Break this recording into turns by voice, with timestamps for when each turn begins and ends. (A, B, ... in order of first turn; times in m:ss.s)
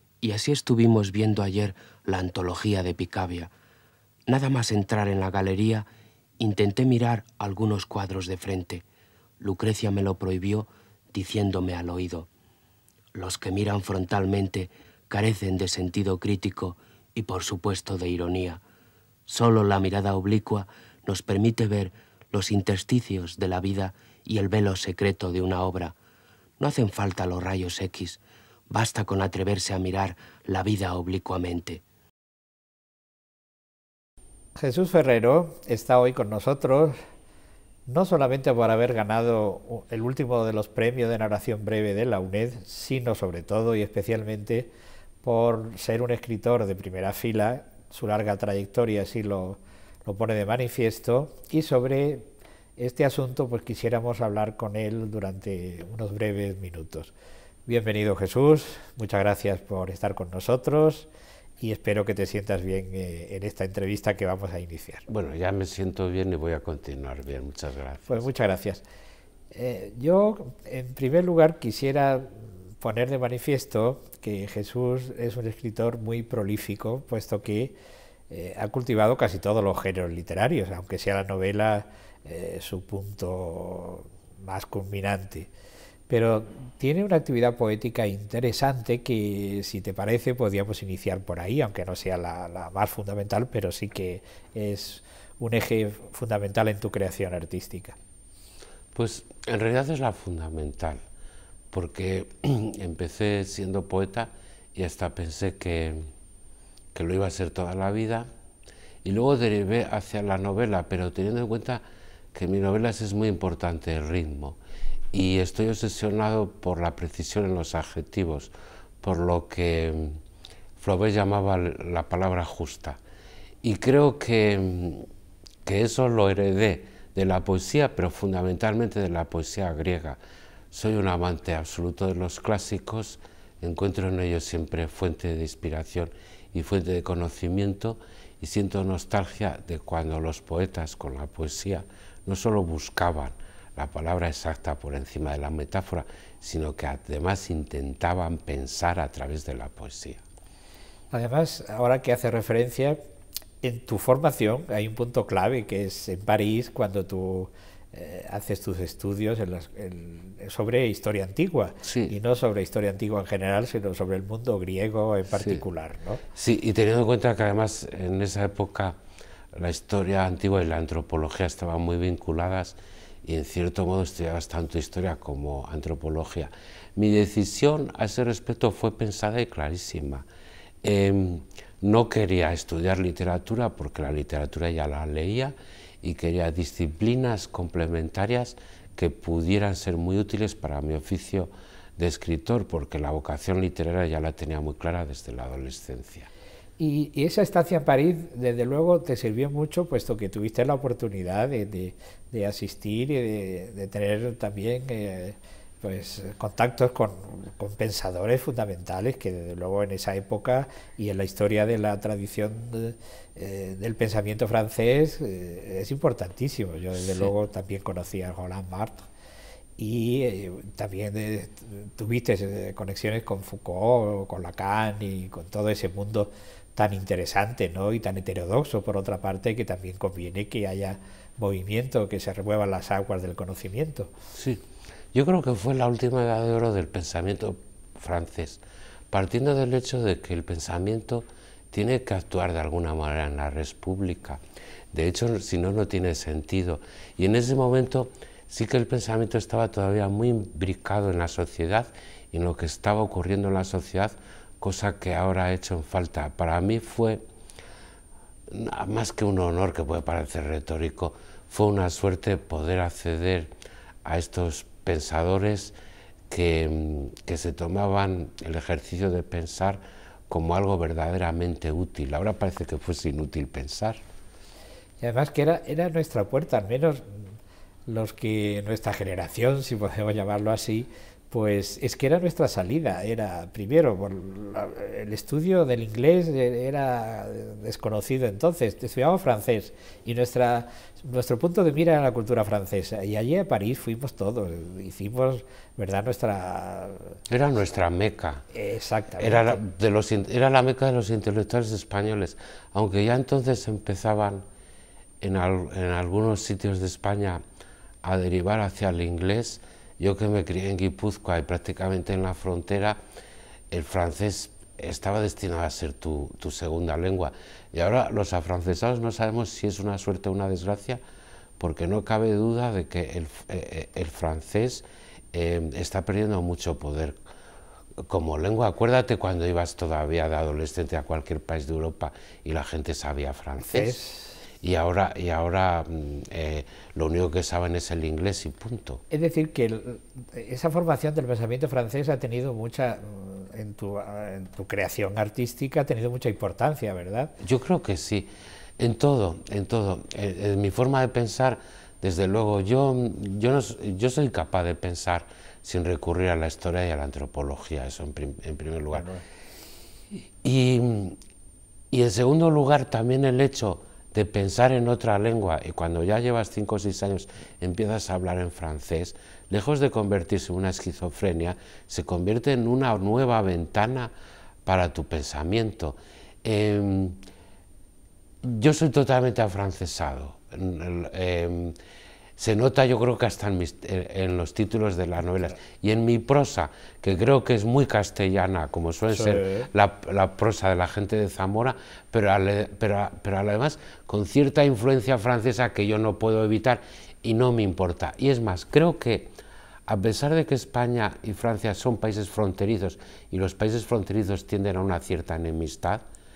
0:00.2-0:03.5 A
0:04.3-0:05.9 A
0:06.4-0:08.8 A
0:09.4-0:12.3 A
0:13.1-0:18.6 A
0:19.3-0:25.9 A
0:26.6-0:31.8 A
0:34.6-0:37.0 B
0:37.9-0:44.7 B
0:45.2-0:57.1 B
0:57.6-1:01.1 B
1:01.6-1:05.0 B
1:05.1-1:08.2 C
1:08.1-1:08.8 B
1:09.5-1:17.8 B
1:18.3-1:25.5 B
1:26.1-1:38.0 B
1:38.9-1:41.0 C
1:41.7-1:46.0 C
1:46.9-1:48.3 C
1:49.0-1:51.8 C
1:52.3-1:54.6 C
1:55.1-2:00.2 C
2:00.8-2:03.0 C
2:03.6-2:05.1 C
2:05.6-2:10.2 C
2:10.7-2:30.2 C
2:31.1-2:33.0 B
2:33.6-2:46.2 B
2:41.8-2:42.1 C
2:46.3-2:48.9 C
2:49.5-3:00.2 C
3:00.8-3:16.3 C
3:16.8-3:39.1 B
3:39.8-3:54.1 B
3:54.3-4:17.2 C
4:18.5-4:23.5 C
4:24.0-4:25.7 C
4:26.3-4:34.0 C
4:35.0-4:37.3 B
4:37.9-4:57.2 B
4:57.3-4:58.4 C
4:58.5-4:59.6 B
4:59.2-5:04.4 C
5:05.2-5:07.4 C
5:08.0-5:13.0 C
5:13.7-5:21.0 C
5:21.6-5:27.2 C
5:28.0-5:34.0 C
5:33.6-5:34.3 B
5:34.6-5:39.0 C
5:39.1-5:47.3 B
5:47.4-5:59.1 C
5:59.0-5:59.2 B
6:00.4-6:01.2 C
6:01.9-6:14.1 C
6:14.6-6:17.2 C
6:18.4-6:21.8 C
6:22.4-6:39.3 C
6:29.1-6:29.7 B
6:39.9-6:46.0 C